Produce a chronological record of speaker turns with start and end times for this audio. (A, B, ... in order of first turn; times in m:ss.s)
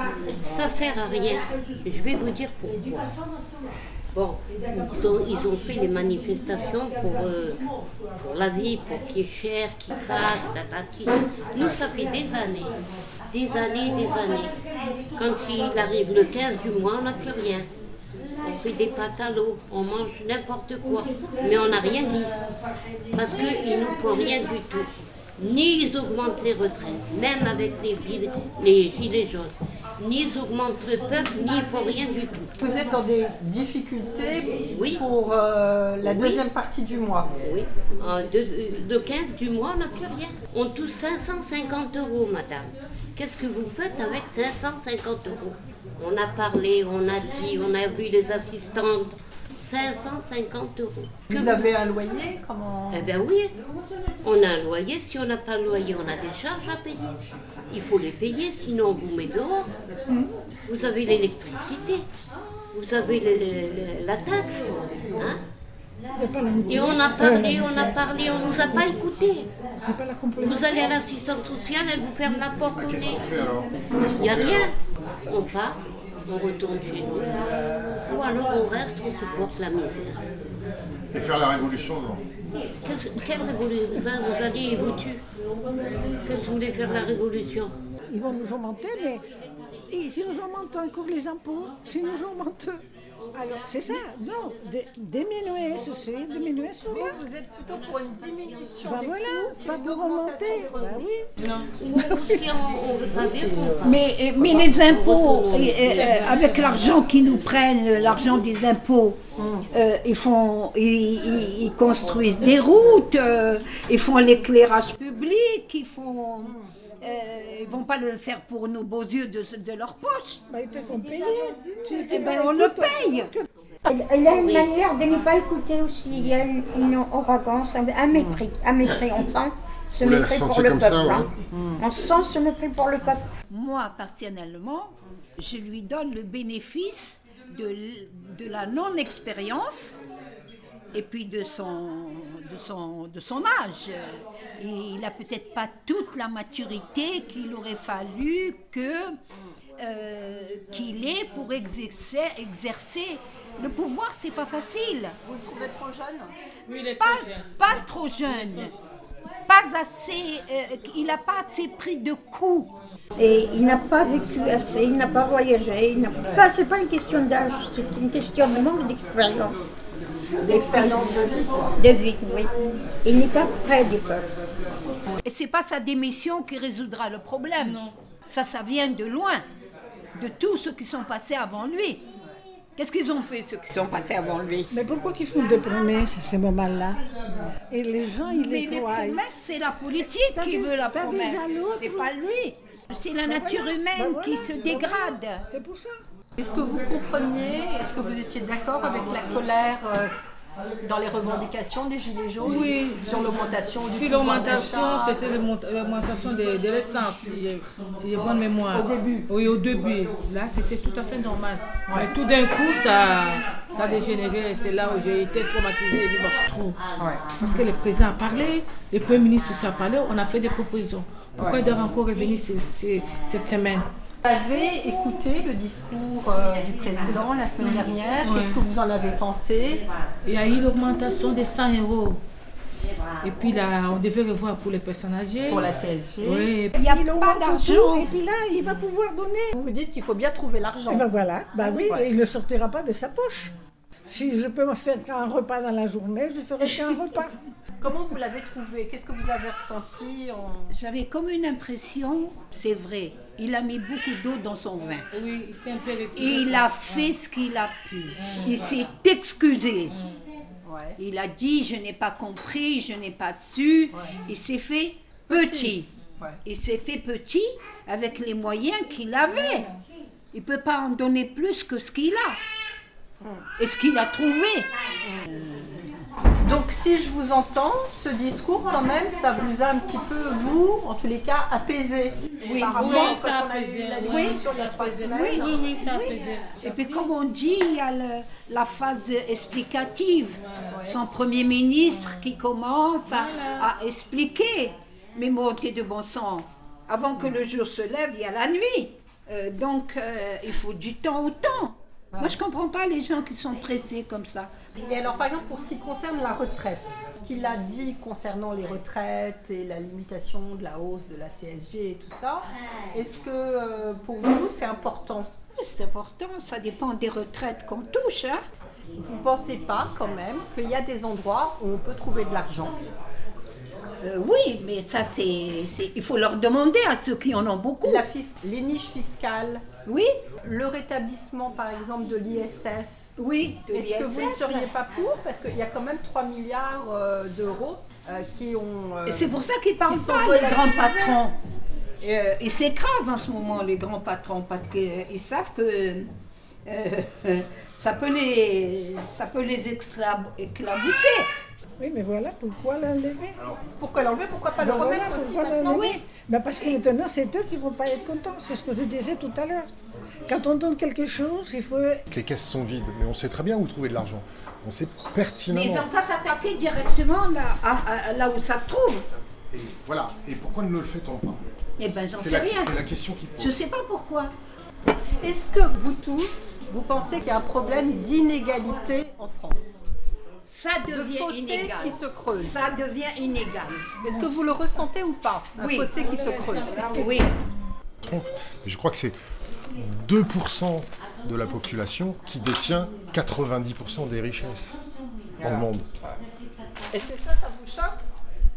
0:00.3-0:03.1 A
0:04.1-0:07.6 A
0:08.2-0:12.8 A
0:13.3-0:14.6 A
0:15.2-0:17.7 A
0:18.4-0:22.3 A
0:23.1-0:32.5 A
0:32.6-0:37.3 B
0:34.7-0:35.0 A
0:36.0-0:36.4 A
0:37.4-0:51.7 A
0:51.3-0:53.1 B
0:52.9-0:53.5 A
0:54.2-0:57.1 A
0:57.7-0:59.7 A
1:00.7-1:02.0 A
1:02.7-1:05.4 A
1:06.2-1:07.9 C
1:06.6-1:09.5 A
1:09.9-1:10.9 C
1:10.4-1:13.2 A
1:12.8-1:14.7 D
1:14.1-1:14.8 A
1:15.3-1:17.4 A
1:18.1-1:20.2 A
1:21.1-1:22.2 D
1:22.8-1:25.2 A
1:26.2-1:27.8 A
1:28.1-1:29.2 C
1:29.9-1:32.8 C
1:33.3-1:37.2 C
1:36.9-1:41.1 B
1:38.8-1:41.3 C
1:41.8-1:46.2 A
1:43.8-1:49.2 E
1:45.8-1:47.0 F
1:49.4-1:49.7 B
1:49.7-2:00.4 E
2:00.5-2:03.4 C
2:01.9-2:03.3 E
2:03.9-2:13.3 G
2:04.3-2:04.7 A
2:10.0-2:11.3 D
2:13.5-2:20.0 E
2:20.9-2:29.1 E
2:29.8-2:35.2 E
2:35.2-2:36.3 B
2:36.7-2:38.7 F
2:37.0-2:38.7 E
2:39.5-2:42.7 E
2:43.2-2:49.6 G
2:50.4-2:51.8 B
2:51.8-2:52.5 G
2:53.0-2:54.3 G
2:55.2-2:59.4 E
2:57.6-2:58.0 F
3:00.2-3:02.0 E
3:02.8-3:04.7 E
3:04.7-3:07.0 C
3:07.7-3:09.2 C
3:08.2-3:15.4 E
3:10.1-3:12.1 C
3:13.2-3:16.0 C
3:16.4-3:20.1 B
3:20.8-3:25.2 B
3:22.4-3:23.3 F
3:23.8-3:36.8 F
3:28.7-3:29.3 B
3:37.4-3:43.9 F
3:44.2-3:49.8 B
3:47.1-3:48.6 F
3:50.3-3:52.2 F
3:53.2-3:55.7 F
3:55.5-3:56.5 B
3:56.2-3:56.9 F
3:56.8-3:58.2 E
3:56.9-3:59.5 C
3:59.5-4:01.0 B
4:00.9-4:03.5 C
4:01.6-4:02.0 B
4:04.1-4:07.4 C
4:07.8-4:10.8 B
4:10.7-4:15.0 E
4:15.1-4:17.2 F
4:16.2-4:20.0 E
4:18.2-4:18.6 F
4:20.6-4:21.0 B
4:21.0-4:25.9 E
4:25.3-4:26.4 B
4:26.4-4:29.7 E
4:29.4-4:29.7 B
4:30.3-4:32.4 E
4:33.6-4:34.7 E
4:36.4-4:45.6 B
4:42.4-4:43.1 E
4:42.6-4:47.1 F
4:44.1-4:44.4 E
4:45.2-5:04.5 E
4:53.1-4:53.7 F
5:04.8-5:15.3 B
5:15.6-5:18.4 E
5:19.0-5:22.8 B
5:24.0-5:28.0 E
5:27.8-5:29.6 B
5:30.4-5:33.0 B
5:33.2-5:34.7 E
5:33.7-5:41.2 B
5:39.1-5:41.4 E
5:42.0-5:46.1 E
5:46.7-5:51.3 E
5:51.8-5:53.4 C
5:53.8-5:56.0 B
5:54.6-5:59.7 C
5:55.7-5:56.0 E
6:00.3-6:02.0 C
6:02.1-6:05.9 D
6:05.5-6:09.0 E
6:09.5-6:11.4 D
6:11.8-6:12.8 E
6:12.1-6:13.6 D
6:13.4-6:14.3 E
6:15.2-6:19.8 B
6:20.5-6:23.9 E
6:20.9-6:22.6 B
6:24.0-6:27.2 B
6:25.6-6:25.9 E
6:26.0-6:27.2 F
6:26.7-6:27.3 E
6:28.1-6:29.2 D
6:29.8-6:34.8 D
6:35.4-6:35.9 D
6:36.9-6:38.0 B